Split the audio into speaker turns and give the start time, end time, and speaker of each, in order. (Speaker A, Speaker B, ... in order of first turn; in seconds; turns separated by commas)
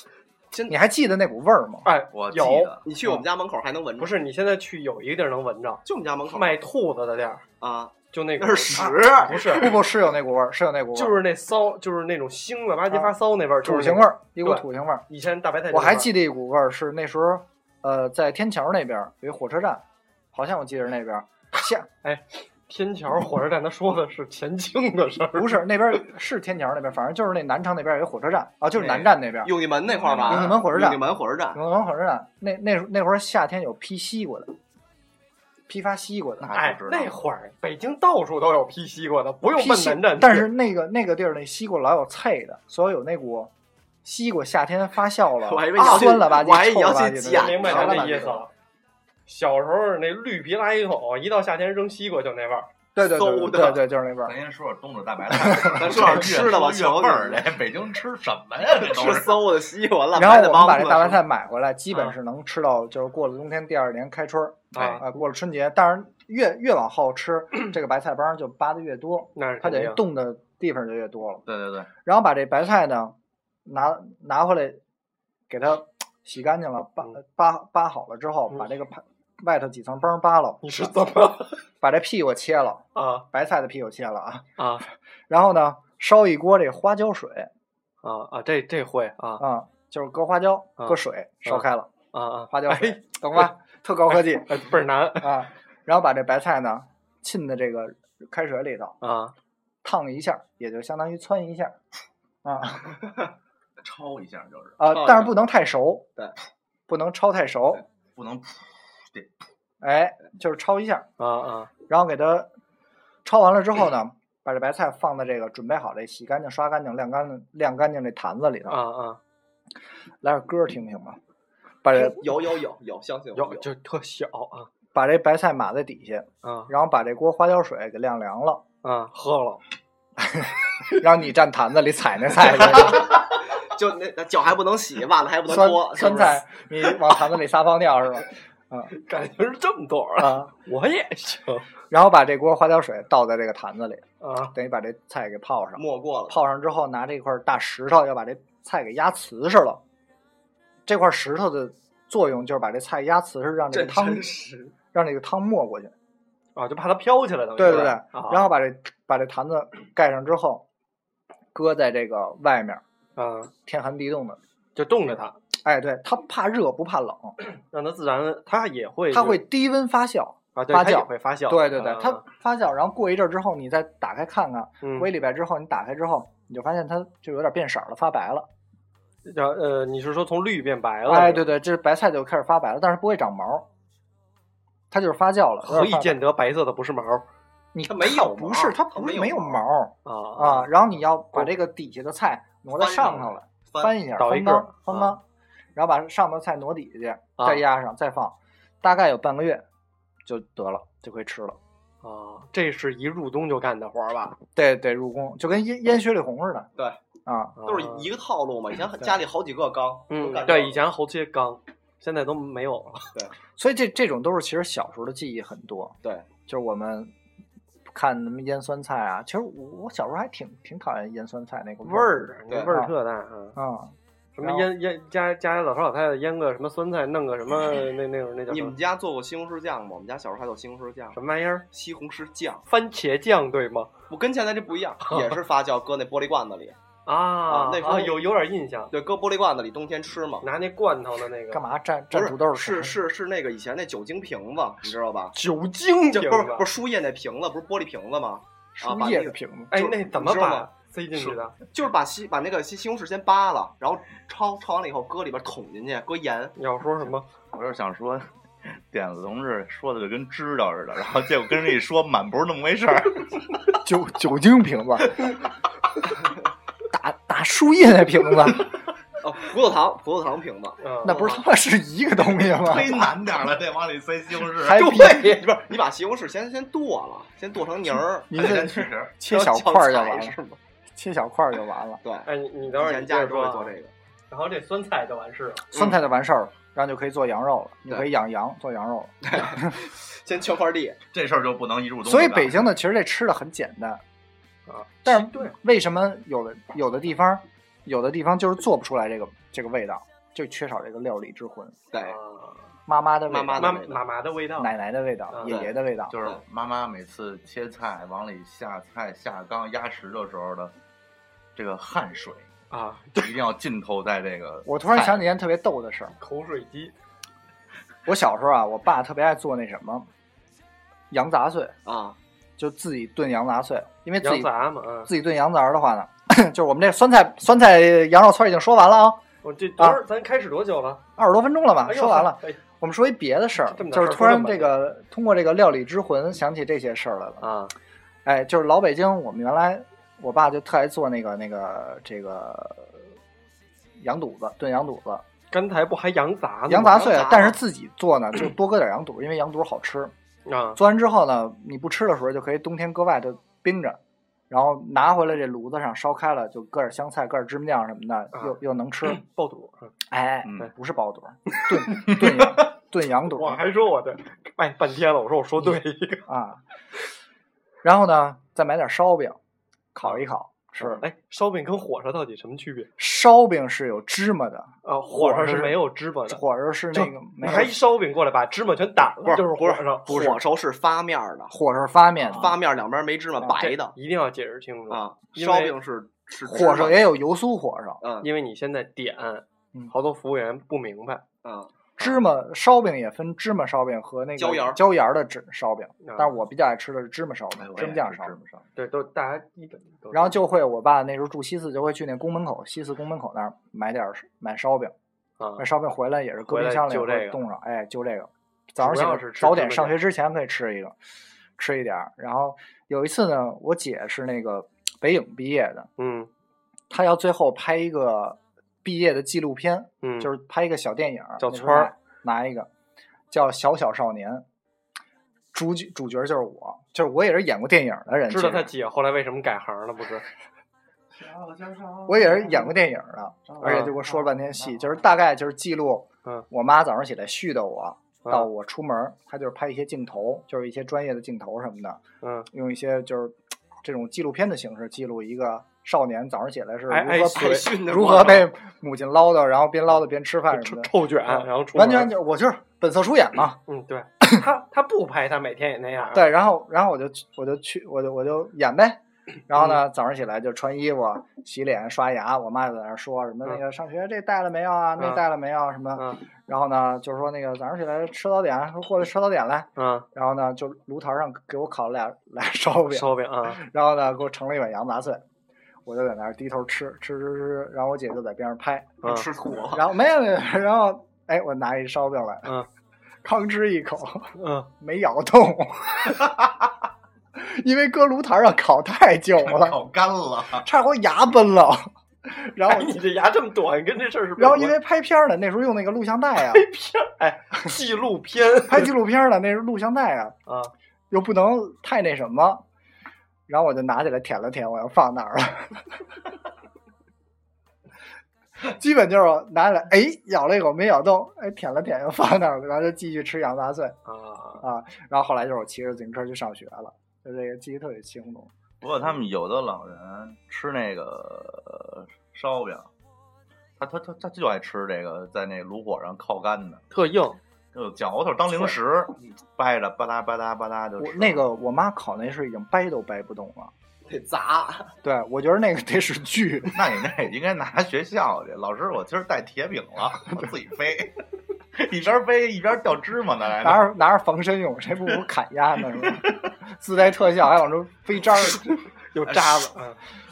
Speaker A: 0.5-0.8, Speaker B: 0.7-1.9, Speaker C: 1.8-2.7, Speaker D: 2.1-2.9, Speaker A: 2.8-4.1, Speaker C: 4.0-7.4, Speaker A: 5.8-6.6, Speaker A: 7.6-9.8, Speaker C: 8.1-9.7, Speaker B: 8.8-11.2, Speaker C: 10.9-16.1, Speaker B: 13.6-15.0, Speaker B: 15.7-21.9, Speaker C: 22.0-26.0, Speaker B: 25.3-29.5, Speaker A: 28.7-31.6, Speaker D: 29.9-30.6, Speaker B: 30.3-31.0, Speaker B: 31.5-34.5, Speaker B: 35.7-36.5, Speaker D: 36.4-37.2, Speaker C: 36.5-40.5, Speaker B: 39.4-43.5, Speaker B: 44.0-48.4, Speaker A: 45.4-48.4, Speaker C: 47.2-48.5, Speaker C: 49.3-52.7, Speaker B: 52.9-54.3, Speaker A: 53.0-53.8, Speaker D: 54.2-59.5, Speaker B: 55.3-56.2, Speaker A: 55.6-57.5, Speaker A: 58.8-61.2, Speaker B: 60.1-71.4, Speaker C: 64.7-65.0, Speaker D: 64.7-65.0, Speaker C: 69.3-70.0, Speaker D: 71.5-71.9, Speaker B: 72.0-73.1, Speaker B: 73.7-74.8, Speaker B: 75.5-80.9, Speaker C: 80.6-81.6, Speaker B: 81.8-84.5, Speaker C: 82.9-83.2, Speaker C: 84.6-84.8, Speaker B: 85.3-87.5, Speaker C: 88.0-89.4, Speaker B: 89.4-91.9, Speaker C: 90.8-93.5, Speaker B: 92.5-94.6, Speaker C: 94.1-95.4, Speaker B: 95.2-99.0, Speaker C: 99.0-99.3, Speaker B: 99.8-101.8, Speaker B: 102.4-103.0, Speaker D: 103.8-104.8, Speaker B: 104.8-106.0, Speaker A: 104.9-105.3, Speaker B: 106.9-107.8, Speaker D: 108.1-109.3, Speaker B: 109.8-111.1, Speaker C: 111.2-111.7, Speaker B: 111.9-112.5, Speaker B: 113.2-118.8, Speaker C: 118.7-119.2, Speaker B: 120.2-121.2, Speaker B: 121.8-122.4, Speaker A: 121.9-123.7, Speaker C: 123.3-124.7, Speaker B: 124.9-128.6, Speaker C: 126.4-126.7, Speaker C: 128.8-129.6, Speaker B: 130.2-133.2, Speaker A: 133.6-136.4, Speaker B: 135.5-138.9, Speaker C: 138.9-141.7, Speaker B: 140.2-140.5, Speaker B: 141.9-149.8, Speaker C: 144.2-144.5, Speaker A: 145.8-146.4, Speaker B: 150.8-154.3, Speaker A: 153.7-154.7, Speaker B: 154.9-155.9, Speaker C: 156.6-158.5, Speaker B: 157.6-160.6, Speaker B: 161.5-162.8, Speaker C: 163.2-163.5, Speaker B: 163.7-164.4, Speaker C: 164.7-165.4, Speaker B: 165.5-167.3, Speaker C: 167.4-169.4, Speaker B: 169.1-178.5, Speaker C: 170.6-172.2, Speaker C: 174.8-175.1, Speaker C: 179.2-181.5, Speaker B: 181.1-183.7, Speaker B: 184.9-186.2, Speaker C: 185.6-187.2, Speaker B: 187.7-195.2, Speaker A: 187.9-189.6, Speaker C: 190.0-190.8, Speaker A: 192.8-193.9, Speaker C: 194.2-195.2, Speaker B: 195.7-199.6, Speaker C: 197.4-197.6, Speaker B: 200.2-201.6, Speaker C: 202.0-204.4, Speaker B: 204.5-206.7, Speaker B: 207.2-207.6, Speaker C: 207.6-208.1, Speaker A: 207.7-210.8, Speaker C: 210.1-213.1, Speaker B: 213.6-215.9, Speaker B: 216.5-217.1, Speaker B: 217.9-222.9, Speaker C: 221.8-223.6, Speaker B: 223.6-224.7, Speaker C: 224.3-228.8, Speaker A: 228.5-231.2, Speaker C: 231.1-231.6, Speaker A: 231.7-232.6, Speaker C: 232.7-233.9, Speaker A: 234.1-236.8, Speaker C: 235.0-235.4, Speaker C: 237.1-238.9, Speaker A: 237.5-238.2, Speaker A: 238.9-240.4, Speaker C: 240.4-241.6, Speaker B: 241.5-242.9, Speaker A: 242.1-245.3, Speaker C: 245.3-246.7, Speaker A: 246.2-256.6, Speaker B: 248.8-249.7, Speaker C: 249.7-251.6, Speaker C: 256.6-257.3, Speaker D: 257.5-263.4, Speaker B: 263.8-265.3, Speaker B: 266.9-268.7, Speaker A: 269.2-270.8, Speaker C: 270.8-271.4, Speaker B: 271.0-273.1, Speaker D: 272.3-274.9, Speaker B: 274.6-275.4, Speaker A: 274.7-280.6, Speaker C: 274.9-275.3, Speaker B: 278.3-280.4, Speaker D: 278.3-279.1, Speaker B: 280.9-282.0, Speaker A: 282.0-283.9, Speaker C: 282.2-283.7, Speaker C: 284.3-285.6, Speaker A: 285.7-286.0, Speaker B: 285.7-289.8, Speaker A: 289.2-291.0, Speaker D: 291.1-292.6, Speaker B: 292.0-294.0, Speaker C: 294.7-295.5, Speaker B: 295.0-301.8, Speaker A: 301.9-302.2, Speaker C: 302.0-302.6, Speaker B: 302.9-303.7, Speaker A: 303.3-304.0, Speaker C: 303.6-304.7, Speaker B: 304.6-306.1, Speaker C: 305.3-305.6, Speaker A: 305.4-306.4, Speaker D: 306.1-310.7, Speaker D: 311.5-312.5, Speaker C: 312.7-313.3, Speaker D: 313.1-315.2, Speaker B: 314.6-316.1, Speaker C: 316.2-316.9, Speaker B: 318.1-320.1, Speaker B: 321.1-321.7, Speaker A: 321.9-322.2, Speaker B: 322.6-329.2, Speaker C: 324.2-325.1, Speaker C: 329.4-331.0, Speaker B: 331.2-337.5, Speaker C: 331.8-332.6, Speaker C: 333.6-334.8, Speaker C: 337.4-337.7, Speaker B: 338.2-343.0, Speaker B: 344.0-345.2, Speaker C: 345.5-347.5, Speaker B: 346.7-350.1, Speaker A: 346.9-347.6, Speaker C: 350.4-350.8, Speaker B: 350.8-354.0, Speaker B: 354.5-359.2, Speaker C: 358.3-359.9, Speaker B: 360.1-363.6, Speaker D: 360.4-360.7, Speaker C: 361.6-362.1, Speaker C: 363.3-366.2, Speaker B: 365.6-366.6, Speaker B: 367.8-369.4, Speaker B: 369.9-371.0, Speaker C: 370.8-372.9, Speaker B: 373.0-377.8, Speaker C: 374.8-380.4, Speaker A: 379.2-381.5, Speaker B: 381.5-382.6, Speaker A: 382.2-383.9, Speaker C: 383.5-385.7, Speaker A: 384.9-387.1, Speaker B: 386.4-388.0, Speaker A: 388.0-388.3, Speaker C: 388.2-391.2, Speaker A: 391.4-391.7, Speaker B: 392.0-398.3, Speaker A: 394.4-394.8, Speaker C: 396.0-396.4, Speaker D: 397.6-398.6, Speaker C: 398.8-400.4, Speaker B: 400.1-404.9, Speaker C: 405.4-405.6, Speaker B: 405.6-410.9, Speaker C: 406.4-407.4, Speaker C: 408.8-410.0, Speaker B: 411.6-415.9, Speaker C: 416.0-416.3, Speaker B: 416.9-422.7, Speaker C: 420.0-420.3, Speaker C: 421.4-421.9, Speaker B: 423.3-424.4, Speaker B: 425.5-428.7, Speaker C: 428.3-430.2, Speaker D: 431.1-432.7, Speaker B: 432.1-442.0, Speaker D: 433.5-435.1, Speaker C: 433.6-433.9, Speaker C: 442.2-442.5, Speaker B: 442.5-453.6, Speaker C: 446.9-447.7, Speaker A: 447.3-448.5, Speaker C: 450.5-452.1, Speaker C: 453.7-456.3, Speaker B: 456.1-475.2, Speaker C: 459.5-459.8, Speaker C: 465.0-465.2, Speaker C: 465.9-466.2, Speaker C: 469.8-470.1, Speaker C: 472.9-473.6, Speaker B: 475.8-479.0, Speaker A: 479.0-479.9, Speaker B: 479.7-482.5, Speaker B: 483.2-486.4, Speaker C: 484.4-484.7, Speaker B: 487.3-489.8, Speaker D: 489.4-490.6, Speaker B: 490.6-493.0, Speaker C: 492.6-494.8, Speaker B: 494.4-496.7, Speaker C: 496.4-498.9, Speaker B: 498.7-500.4, Speaker C: 500.5-500.7, Speaker B: 501.1-502.6, Speaker B: 503.5-506.0, Speaker B: 508.6-514.0, Speaker C: 514.1-514.6, Speaker B: 514.6-518.5, Speaker D: 518.8-522.9, Speaker D: 523.8-526.8, Speaker C: 526.9-527.4, Speaker D: 527.7-531.4, Speaker B: 531.0-533.7, Speaker A: 534.1-534.9, Speaker B: 535.0-536.8, Speaker D: 536.7-541.1, Speaker B: 540.1-540.5, Speaker D: 541.7-543.9, Speaker B: 543.6-548.6, Speaker C: 549.1-550.0, Speaker A: 549.3-549.7